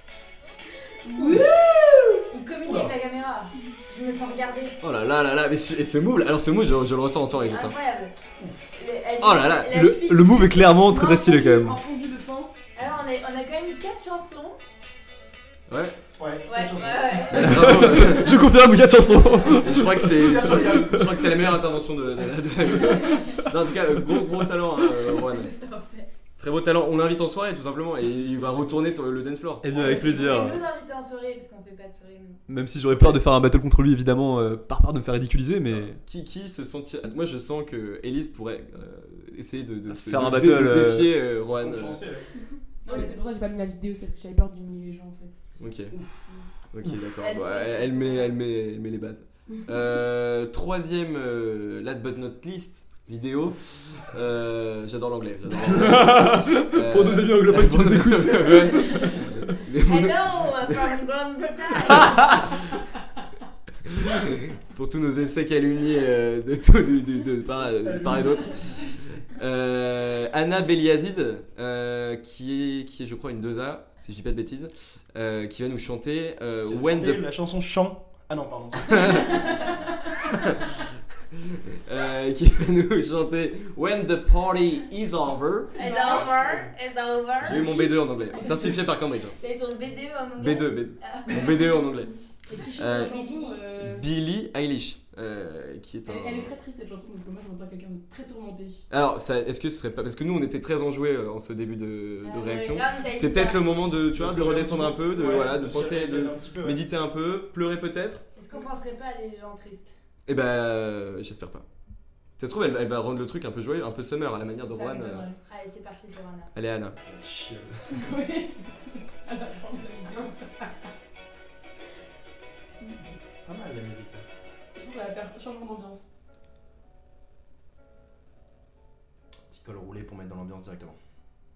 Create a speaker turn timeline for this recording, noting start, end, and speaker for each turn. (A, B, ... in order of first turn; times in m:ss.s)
0:01.0-0:01.8 A
0:01.2-0:04.8 B
0:02.6-0:02.9 C
0:04.8-0:07.8 D
0:07.3-0:08.1 B
0:08.4-0:08.6 C
0:08.8-0:10.8 B
0:09.2-0:09.8 D
0:09.7-0:11.8 E
0:10.8-0:12.5 A
0:12.7-0:14.6 B
0:15.7-0:16.0 D
0:16.2-0:17.6 C
0:16.4-0:18.1 B
0:17.3-0:18.4 D
0:17.4-0:20.3 E
0:19.6-0:25.5 D
0:20.1-0:21.0 C
0:25.0-0:26.1 B
0:26.4-0:29.7 D
0:29.6-0:30.6 E
0:29.7-0:32.4 B
0:32.5-0:36.0 E
0:32.9-0:33.2 D
0:35.7-0:42.0 D
0:39.9-0:41.2 E
0:41.5-0:42.3 C
0:42.8-0:45.4 A
0:45.6-0:46.0 D
0:45.9-0:46.2 C
0:46.7-1:00.9 D
0:47.2-0:48.3 B
0:55.6-0:59.6 E
0:59.8-1:02.6 B
1:02.0-1:02.4 E
1:03.8-1:17.2 D
1:07.4-1:08.8 C
1:16.6-1:19.5 C
1:21.8-1:26.1 D
1:25.8-1:26.2 A
1:25.8-1:28.8 B
1:26.2-1:26.7 C
1:27.4-1:29.4 D
1:29.4-1:31.8 B
1:30.4-1:32.1 D
1:32.5-1:34.1 A
1:32.7-1:33.2 D
1:32.8-1:33.6 B
1:33.7-1:36.6 D
1:36.0-1:38.8 A
1:38.9-1:48.2 D
1:42.2-1:43.6 B
1:44.1-1:46.8 C
1:48.4-1:49.9 B
1:50.3-1:51.6 D
1:52.4-1:55.3 D
1:54.7-1:55.4 A
1:55.4-1:56.5 B
1:56.5-1:57.0 D
1:57.0-1:57.9 C
1:57.9-2:00.9 A
2:03.4-2:04.2 C
2:04.7-2:06.0 A
2:09.5-2:11.0 C